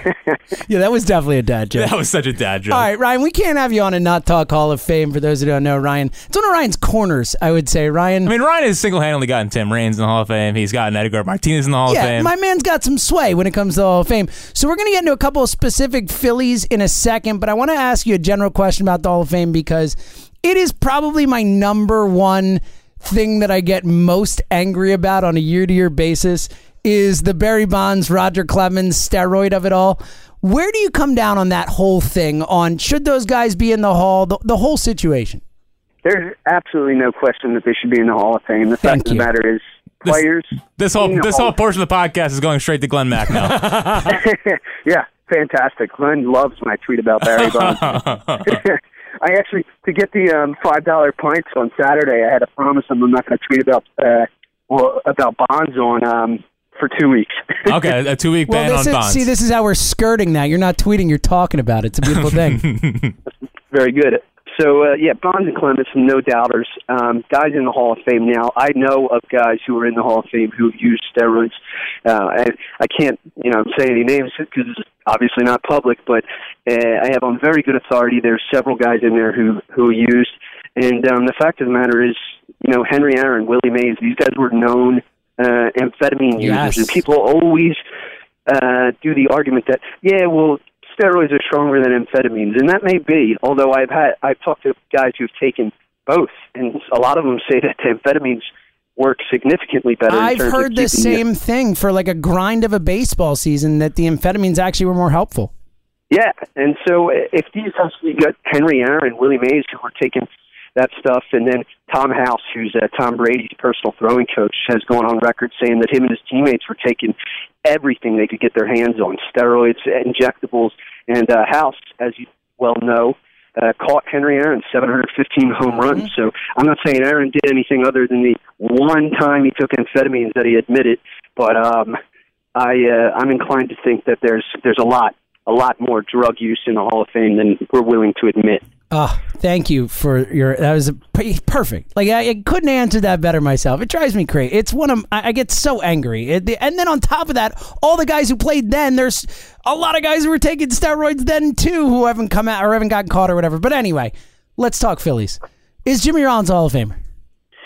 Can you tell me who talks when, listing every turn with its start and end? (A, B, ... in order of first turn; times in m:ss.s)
0:00.7-0:01.9 A
0:01.7-0:02.9 B
0:02.7-0:08.3 A
0:08.2-0:12.3 B
0:11.9-0:35.4 A
0:36.0-0:41.5 C
0:38.8-0:39.2 A
0:40.8-0:44.1 B
0:44.0-0:57.7 C
0:47.2-0:48.6 B
0:57.6-0:59.3 B
0:58.5-1:02.7 A
1:02.2-1:03.1 B
1:03.7-1:27.8 C
1:26.4-1:27.0 A
1:28.5-1:41.2 C
1:40.1-1:45.5 A
1:46.1-2:12.0 C
2:12.5-2:18.6 C
2:18.9-2:37.0 A